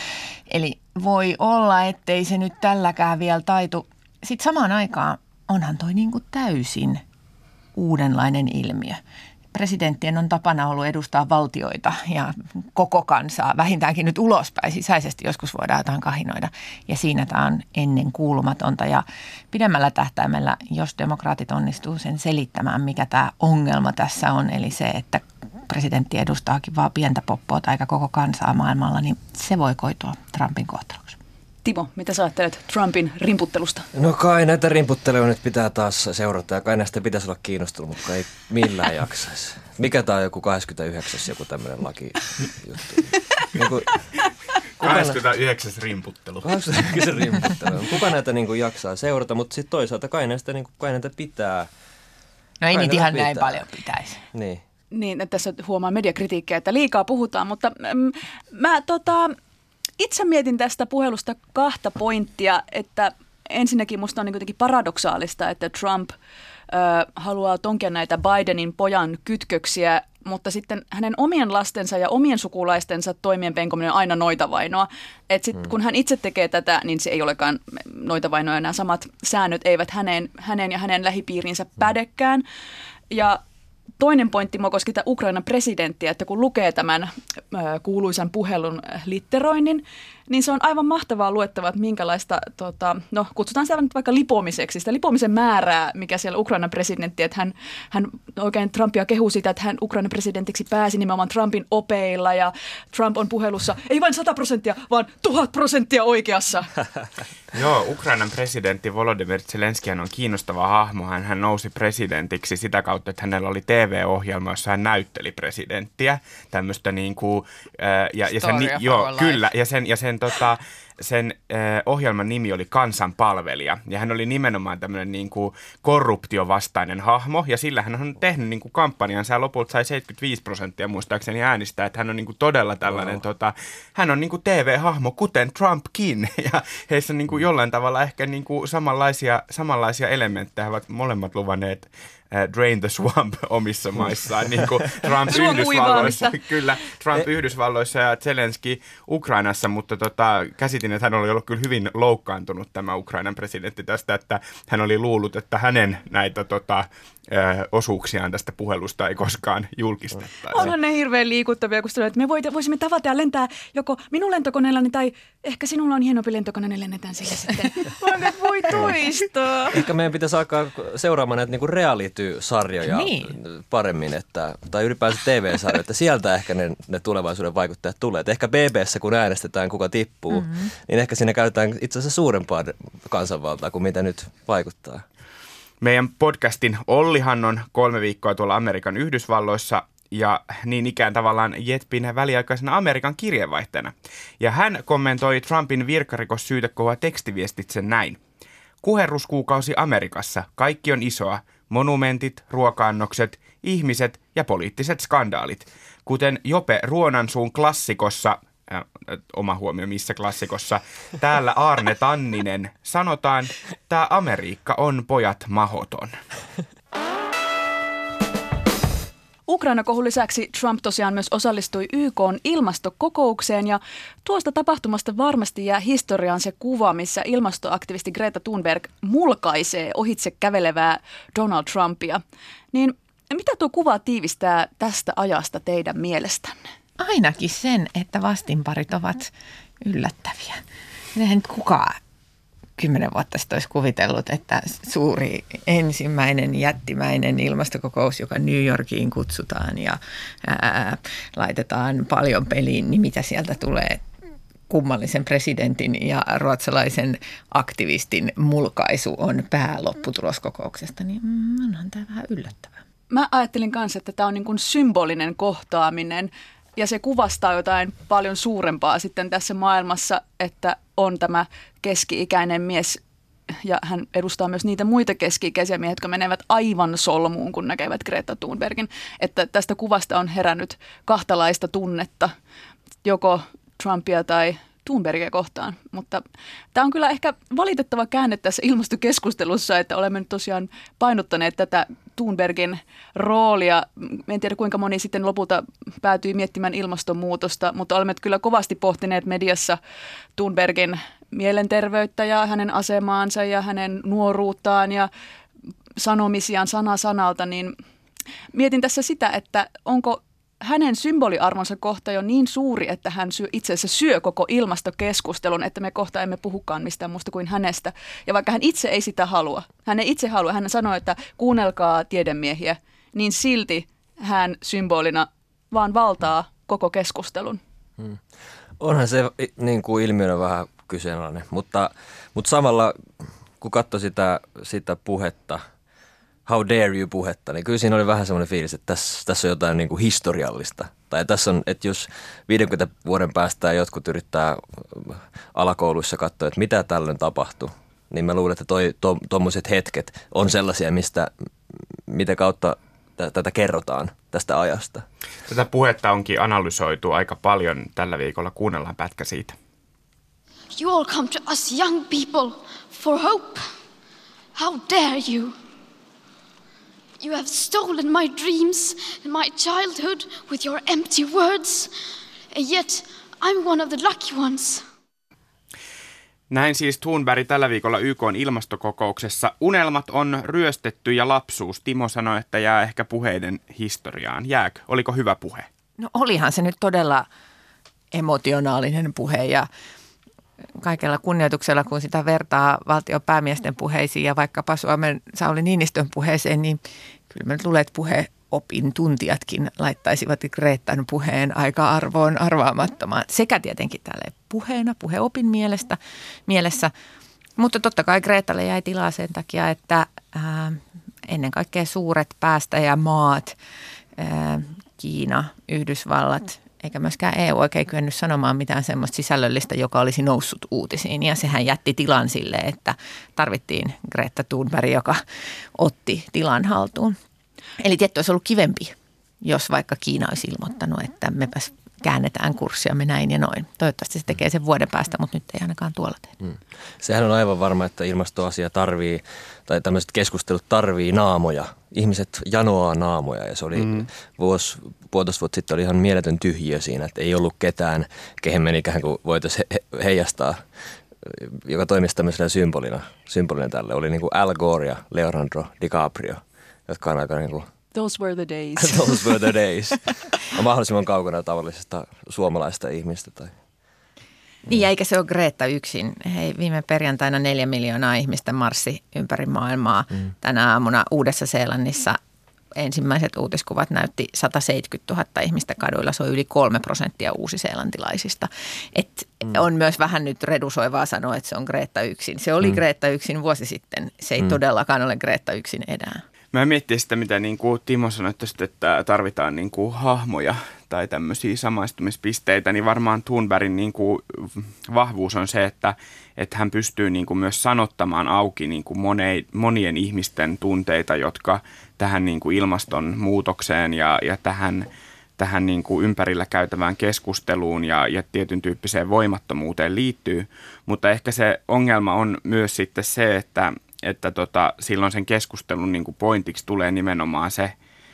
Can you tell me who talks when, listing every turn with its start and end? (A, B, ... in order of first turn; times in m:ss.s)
0:00.5-0:07.0 A
0:07.8-0:09.0 A
0:09.5-0:31.2 A
0:31.6-0:33.9 B
0:33.9-0:44.0 C
0:44.8-0:46.6 D
0:44.8-0:45.2 C
0:46.4-0:51.7 C
0:52.6-0:54.2 A
0:52.7-0:53.7 C
0:54.3-0:54.6 C
0:54.9-0:59.4 B
1:00.0-1:06.2 B
1:06.7-1:22.4 B
1:23.1-1:23.4 B
1:24.0-1:46.7 B
1:47.5-2:40.7 D
1:58.3-1:59.4 A
2:12.9-2:13.2 C
2:25.3-2:26.4 B
2:40.5-2:49.8 B
2:49.7-3:05.0 C
2:52.8-2:53.3 A
3:00.3-3:00.7 A
3:05.8-3:18.2 D
3:18.8-3:36.2 D
3:39.5-3:56.7 B
3:57.0-4:00.6 A
4:01.2-4:02.0 A
4:02.8-4:14.0 A
4:14.7-4:22.7 A
4:23.1-4:42.4 B
4:43.0-4:59.8 B
5:00.4-5:05.1 B
5:06.0-5:07.8 B
5:08.5-5:27.6 B
5:28.8-5:33.0 C
5:33.6-5:35.6 C
5:36.5-5:51.3 C
5:52.1-5:55.1 C
5:55.5-5:59.6 D
6:00.7-6:03.7 E
6:04.6-6:05.6 E
6:07.2-6:11.9 E
6:12.5-6:14.8 E
6:16.5-6:25.7 D
6:26.0-6:27.3 A
6:28.1-6:29.7 A
6:30.8-6:46.9 A
6:47.6-6:53.6 A
6:54.2-7:05.2 A
7:05.8-7:07.2 A
7:07.8-7:16.3 A
7:16.4-7:30.6 C
7:23.8-7:24.1 D
7:31.2-7:37.7 C
7:37.9-7:39.5 B
7:38.8-7:43.5 C
7:44.7-7:52.2 A
7:52.8-8:06.2 A
8:06.5-8:37.8 D